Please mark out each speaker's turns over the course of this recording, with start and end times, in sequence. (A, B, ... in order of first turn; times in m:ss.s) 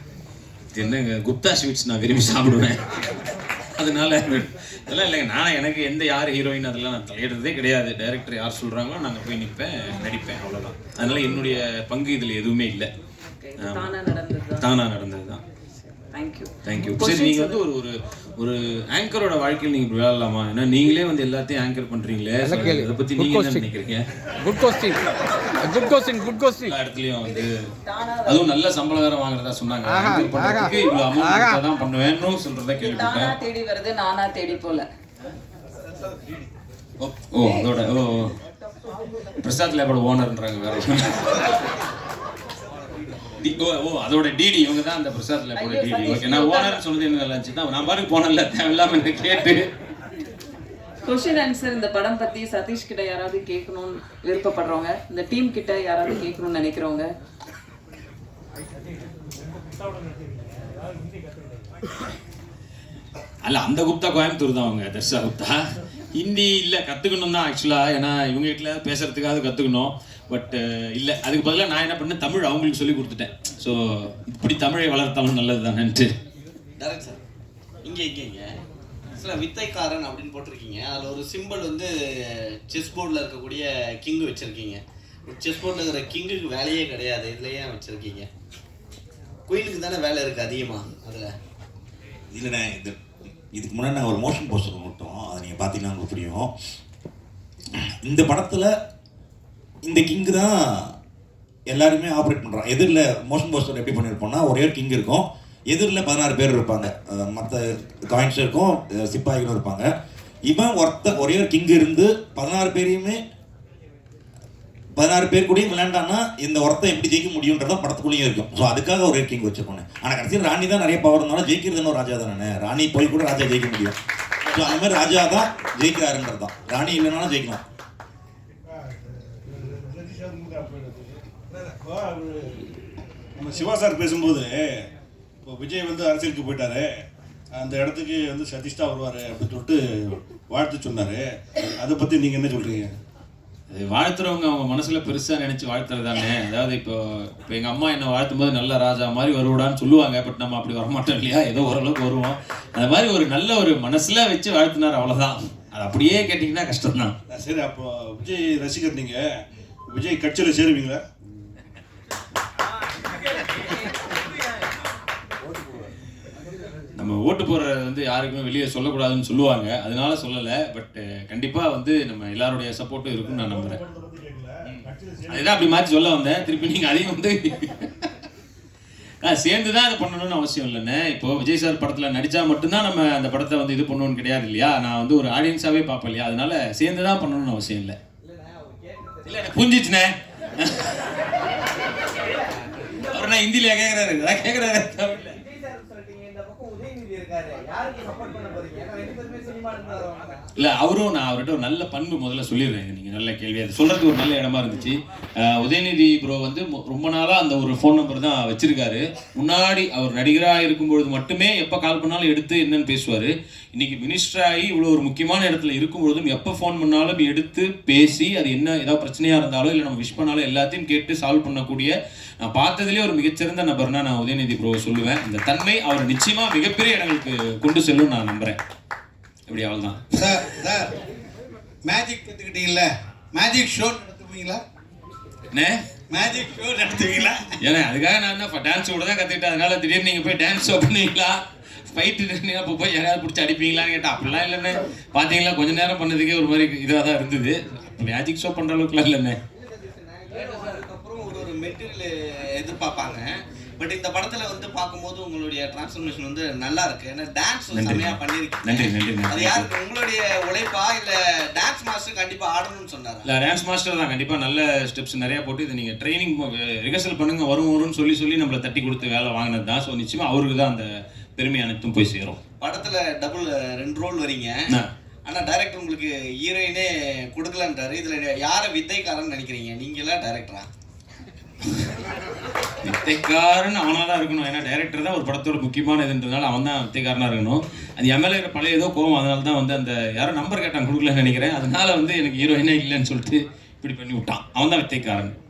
0:00.7-0:02.8 A
0:03.8-0:12.9 A
0:13.3-0:14.6 B
0:13.6-0:13.9 A
0:14.6-0:15.4 A
0:16.1-0:17.6 B
0:16.6-0:24.0 A
0:22.5-0:23.6 C
0:24.4-0:25.0 C
0:25.6-0:26.7 C
0:26.7-0:27.7 A
0:27.3-0:28.5 B
0:28.3-0:33.4 A
0:32.8-0:34.9 B
0:37.0-0:38.3 A
0:39.4-0:41.4 A
0:43.4-0:49.7 A
0:45.6-0:46.8 B
0:51.0-0:57.1 B
1:03.4-1:05.6 A
1:06.2-1:16.1 A
1:16.8-1:17.2 D
1:17.8-1:18.5 D
1:19.2-1:28.3 D
1:29.5-1:31.3 D
1:32.3-1:33.0 E
1:33.5-1:36.5 E
1:38.0-1:38.7 E
1:39.8-1:40.9 E
1:41.7-1:49.9 E
1:50.5-1:53.2 E
1:55.0-2:07.6 E
2:08.8-2:12.7 F
2:13.4-2:14.6 F
2:15.4-2:16.9 F
2:17.5-2:23.0 F
2:23.7-2:37.1 A
2:37.3-2:39.2 F
2:39.9-2:41.0 F
2:47.0-2:53.8 A
2:53.3-2:55.5 F
2:55.3-2:58.1 A
2:59.2-3:08.0 A
3:09.2-3:10.9 A
3:13.1-3:15.3 A
3:15.7-3:20.3 D
3:20.6-3:48.6 A
3:49.5-3:50.0 A
3:50.1-3:50.9 G
3:51.8-3:54.6 G
3:55.5-3:55.8 A
3:56.1-3:57.3 D
3:56.2-3:57.3 G
3:57.6-4:09.4 A
4:10.1-4:23.3 D
4:17.7-4:19.7 A
4:23.3-4:30.9 A
4:31.4-4:32.4 A
4:32.6-4:40.7 D
4:42.8-4:55.3 A